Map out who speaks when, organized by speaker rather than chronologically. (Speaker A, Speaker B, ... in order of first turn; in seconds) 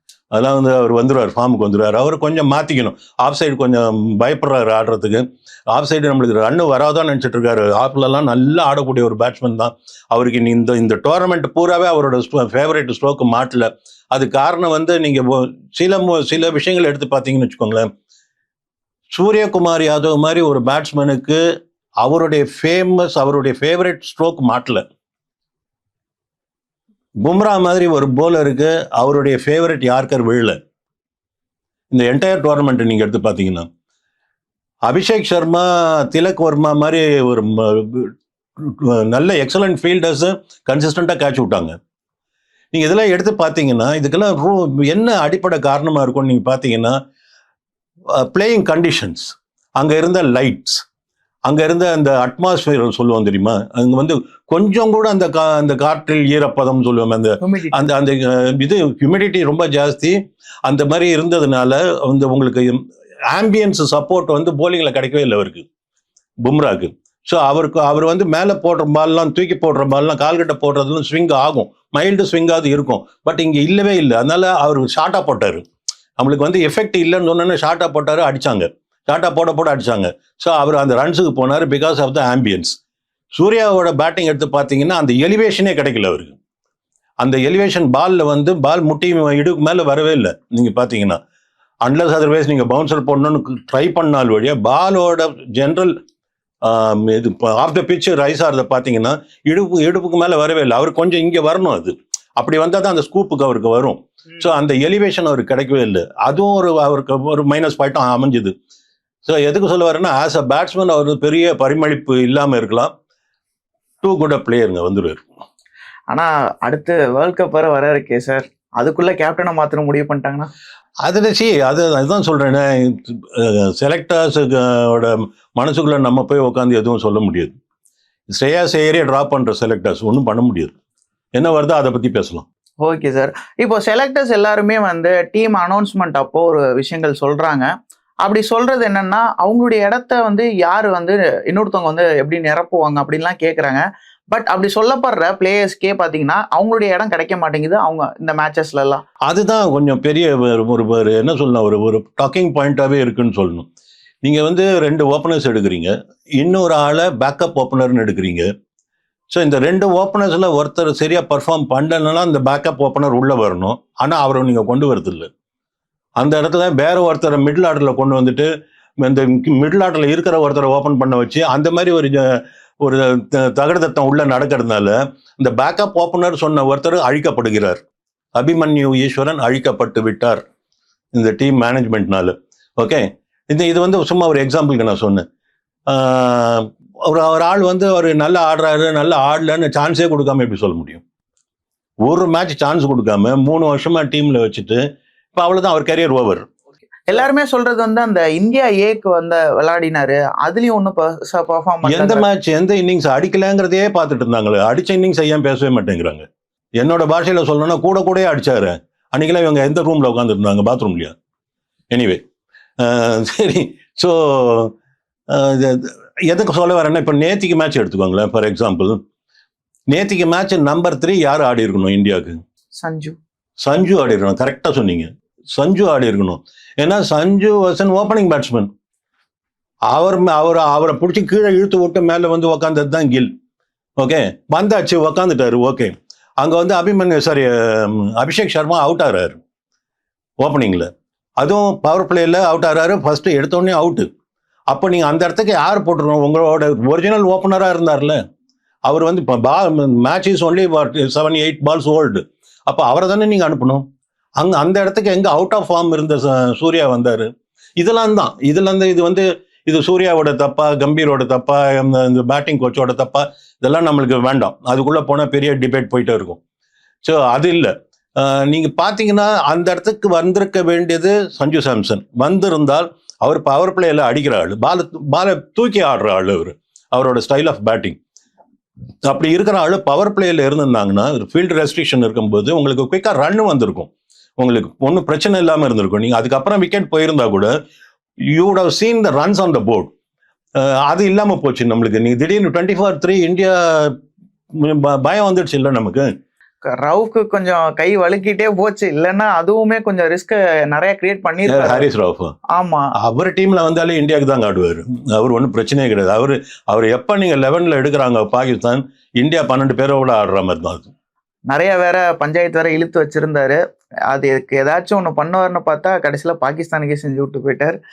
Speaker A: 0.3-17.9, 19.1-21.4, 22.0-24.8, 27.2-30.6, 31.9-33.7, 34.9-41.7, 42.7-47.0, 48.1-50.8, 51.5-62.8, 63.3-65.6, 66.4-75.6, 76.2-82.7, 83.3-86.3, 87.2-91.2, 91.8-96.0, 96.6-108.5, 109.2-112.9, 114.0-115.2, 121.0-127.5, 128.3-130.7, 131.3-132.4, 149.3-153.7, 154.2-158.5, 159.3-165.3, 166.2-168.5, 169.0-177.8, 178.4-180.4, 181.1-185.2, 185.9-191.0, 192.0-194.8, 195.3-196.4, 201.8-206.2, 206.8-211.1, 211.9-212.2, 212.8-214.7, 215.3-219.0, 219.9-222.4, 223.6-228.7, 229.9-233.3, 234.0-239.4, 240.4-240.9, 241.4-244.1, 244.7-248.2, 248.9-253.8, 254.4-266.4, 267.0-278.0, 279.0-287.5, 288.3-289.9, 290.6-294.0, 294.6-296.1, 301.4-302.3, 303.0-310.9
Speaker B: 57.4-57.9, 116.1-120.5, 132.8-137.7, 138.2-149.0, 197.1-202.2, 222.8-223.2, 296.7-301.9, 302.5-302.9, 311.5-313.6, 314.1-317.8